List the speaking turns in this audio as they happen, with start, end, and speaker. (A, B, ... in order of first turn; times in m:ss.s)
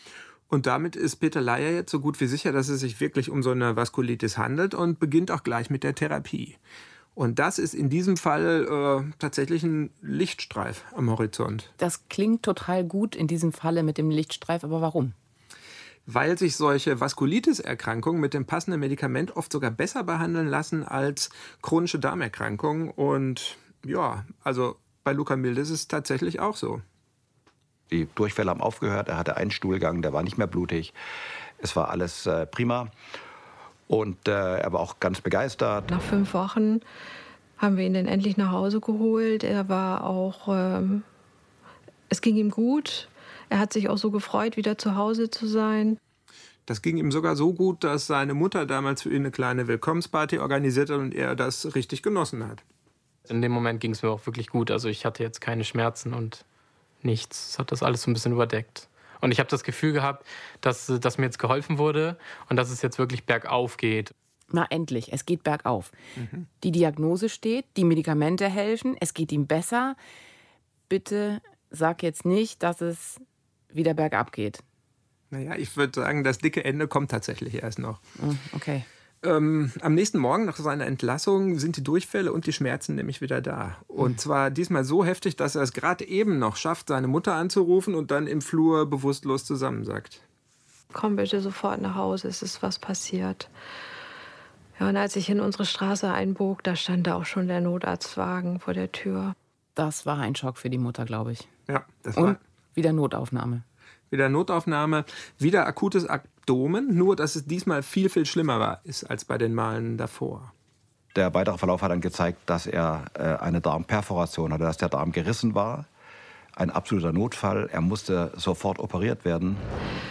0:00.5-0:06.6 A
0:07.2-0:11.7 A
0:11.8-0:15.1 B
0:16.0-0:26.8 A
0:27.9-0:30.9 C
0:31.6-0:32.9 C
0:33.9-0:35.9 C
0:35.9-0:36.8 D
0:37.6-0:41.0 D
0:42.1-0:46.0 D
0:46.7-0:52.6 A
0:53.3-0:56.4 E
0:57.0-1:04.1 E
1:04.5-1:05.9 B
1:06.2-1:06.5 A
1:06.6-1:10.0 B
1:10.9-1:13.2 B
1:13.7-1:14.6 B
1:15.3-1:18.0 A
1:18.2-1:18.9 B
1:19.2-1:30.2 A
1:30.9-1:33.5 D
1:34.8-1:39.3 D
1:39.8-1:41.5 B
1:41.7-1:42.4 A
1:42.1-1:43.6 B
1:44.1-1:50.5 A
1:51.1-1:55.9 C
1:56.6-1:59.6 C